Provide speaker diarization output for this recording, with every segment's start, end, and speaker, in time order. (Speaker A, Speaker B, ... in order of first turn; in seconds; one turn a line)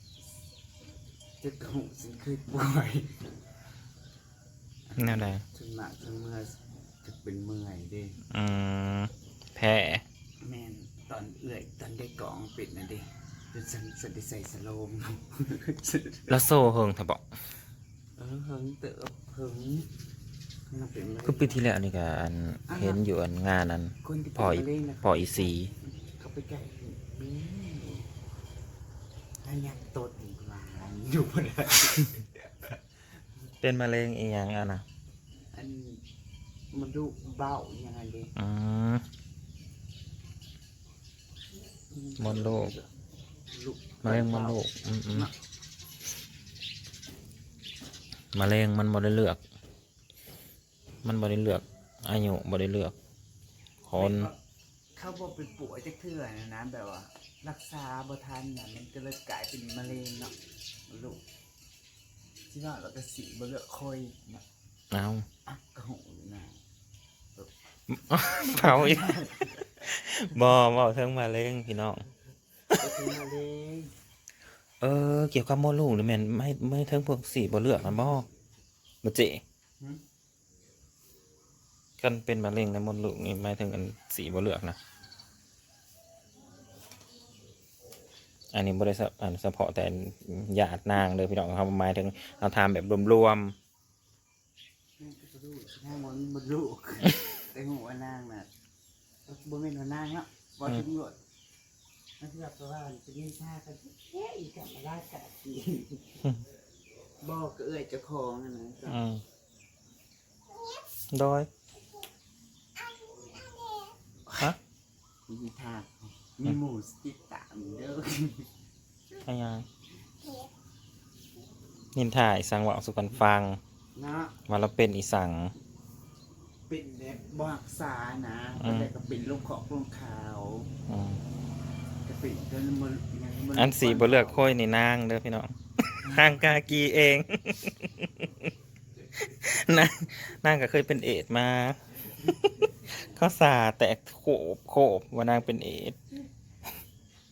Speaker A: 1.4-3.3
Speaker A: 4.9-8.2
Speaker B: 5.0-5.4
Speaker B: 8.3-10.0
Speaker A: 10.4-16.4
Speaker B: 16.3-17.2
Speaker A: 18.2-19.9
Speaker A: 20.7-21.6
Speaker B: 21.2-25.7
Speaker A: 22.7-23.0
Speaker A: 24.0-28.1
Speaker A: 29.4-33.2
Speaker B: 33.6-34.8
Speaker A: 35.5-36.0
Speaker A: 36.7-38.3
Speaker B: 38.4-39.0
Speaker A: 41.9-42.9
Speaker B: 42.2-42.7
Speaker A: 43.5-45.3
Speaker B: 44.0-45.3
Speaker B: 48.3-49.4
Speaker B: 51.0-52.9
Speaker B: 53.9-54.3
Speaker A: 53.9-54.4
Speaker A: 54.9-60.3
Speaker A: 60.9-61.2
Speaker A: 62.5-64.4
Speaker B: 64.9-65.3
Speaker A: 65.5-66.6
Speaker B: 67.9-69.1
Speaker A: 68.2-69.8
Speaker B: 69.8-72.0
Speaker A: 72.7-73.9
Speaker B: 74.8-78.2
Speaker B: 79.0-79.4
Speaker B: 82.0-84.8
Speaker B: 88.5-93.5
Speaker A: 95.0-98.5
Speaker A: 99.2-101.2
Speaker A: 102.2-106.2
Speaker A: 107.2-109.0
Speaker B: 108.9-109.2
Speaker B: 111.1-111.5
Speaker A: 112.8-114.5
Speaker A: 115.3-118.5
Speaker B: 119.2-119.7
Speaker B: 121.9-123.6
Speaker A: 123.9-124.4
Speaker B: 124.5-125.5
Speaker A: 126.7-130.7
Speaker B: 128.6-128.9
Speaker B: 130.9-131.2
Speaker A: 132.0-134.5
Speaker B: 133.6-138.5
Speaker A: 136.0-136.3
Speaker B: 139.2-146.0